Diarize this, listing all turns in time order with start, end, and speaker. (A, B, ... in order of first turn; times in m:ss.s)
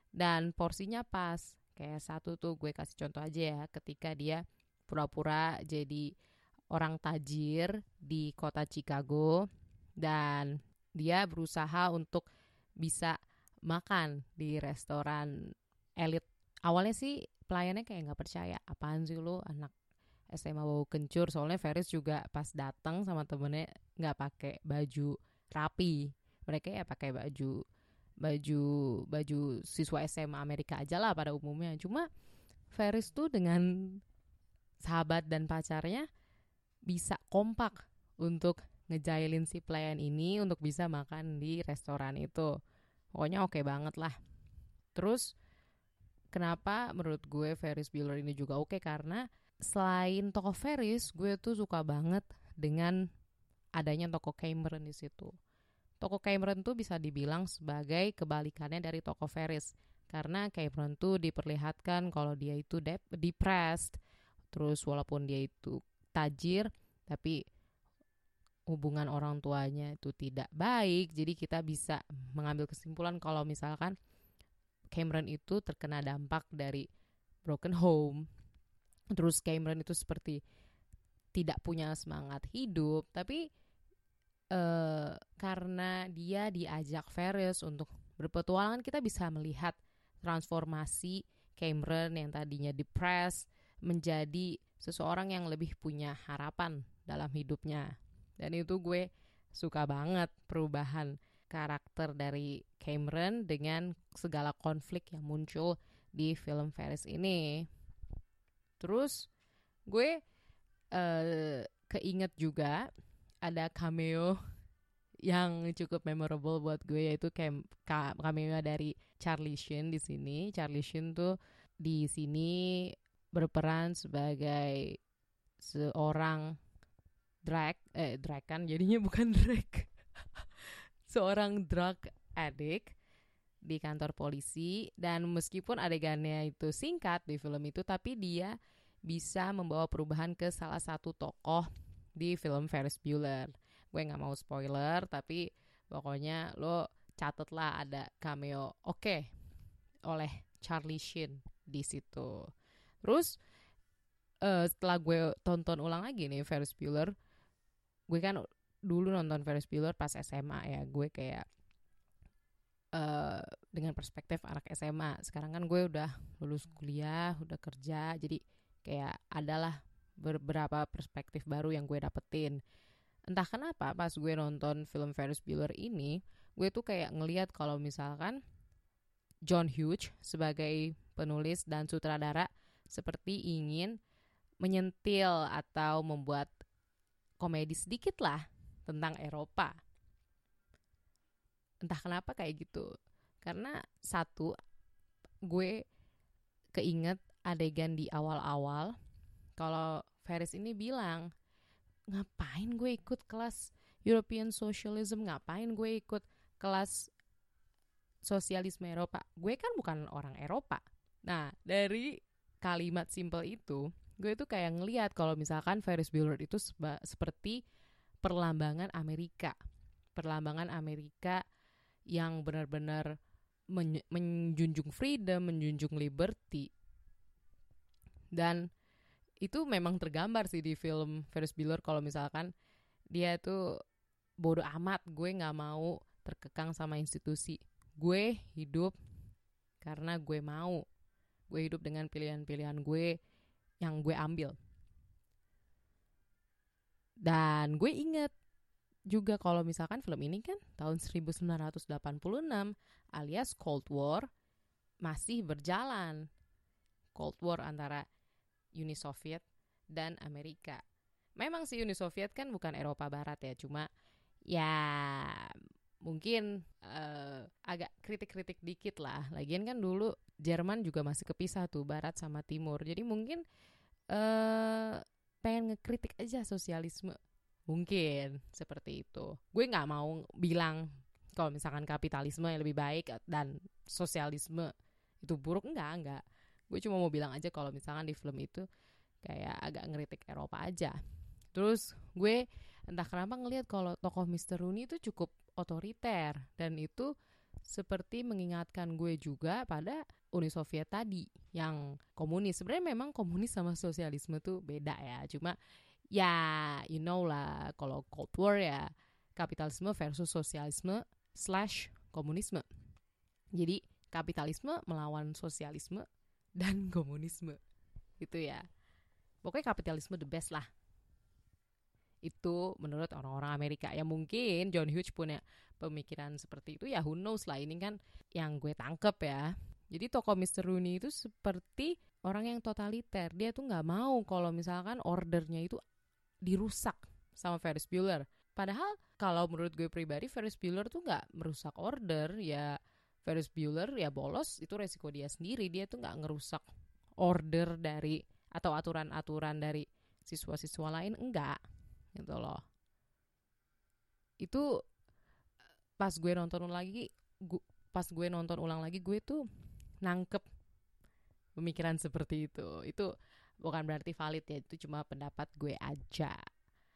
0:00.2-0:06.1 A
0:06.7-0:09.5 A
0:10.0-0:12.3 A
0:12.8-0:15.3 A
0:16.0-0:19.7 A
0:20.3-0:27.6 A
0:28.2-0:32.1 A
0:32.7-0:34.0 A
0:34.8-0:36.1 A
0:36.9-0:42.5 A
0:43.2-0:44.2 A
0:45.0-0:45.3 A
0:46.3-0:53.0 A
0:53.8-0:55.3 A
0:56.0-1:04.0 A
1:04.5-1:07.4 A
1:08.7-1:14.0 A
1:14.9-1:16.9 A
1:17.4-1:18.2 A
1:19.1-1:20.4 A
1:21.3-1:23.4 A
1:24.5-1:47.7 A
1:48.8-1:49.3 A
1:49.9-1:50.2 A
1:50.9-1:52.9 A
1:53.4-1:54.4 A
1:55.3-2:05.0 A
2:05.6-2:06.6 A
2:07.4-2:10.5 A
2:11.1-2:13.0 A
2:13.6-2:18.6 A
2:19.1-2:29.3 A
2:30.1-2:32.5 A
2:33.0-2:33.3 A
2:34.4-2:37.2 A
2:38.1-2:41.4 A
2:43.0-2:52.6 A
2:53.3-2:58.4 A
2:59.5-3:04.0 A
3:04.6-3:06.5 A
3:07.4-3:09.8 A
3:11.8-3:12.9 A
3:13.4-3:14.5 A
3:15.5-3:15.8 A
3:16.7-3:19.0 A
3:19.6-3:21.3 A
3:22.1-3:27.1 A
3:28.3-3:37.6 A
3:38.2-3:39.6 A
3:40.2-3:41.4 A
3:42.1-3:43.2 A
3:43.7-3:46.7 A
3:48.3-3:48.7 A
3:49.4-3:52.5 A
3:53.1-3:53.6 A
3:54.4-3:59.0 A
3:59.8-4:00.8 A
4:01.5-4:03.2 A
4:03.8-4:04.6 A
4:07.2-4:08.3 A
4:09.1-4:14.3 A
4:15.0-4:16.3 A
4:17.2-4:18.0 A
4:18.8-4:20.8 A
4:21.4-4:23.9 A
4:24.5-4:33.4 A
4:34.1-4:37.2 A
4:37.7-4:40.9 A
4:41.4-4:48.7 A
4:49.2-4:51.0 A
4:51.5-4:57.1 A
4:57.7-5:05.6 A
5:06.1-5:12.7 A
5:13.6-5:16.0 A
5:16.6-5:17.6 A
5:18.2-5:18.7 A
5:19.4-5:20.7 A
5:22.2-5:35.8 A
5:36.4-5:46.6 A
5:47.2-5:51.6 A
5:52.2-5:52.6 A
5:54.4-5:54.7 A
5:56.0-5:59.4 A
6:00.0-6:00.4 A
6:01.6-6:03.1 A
6:03.6-6:06.4 A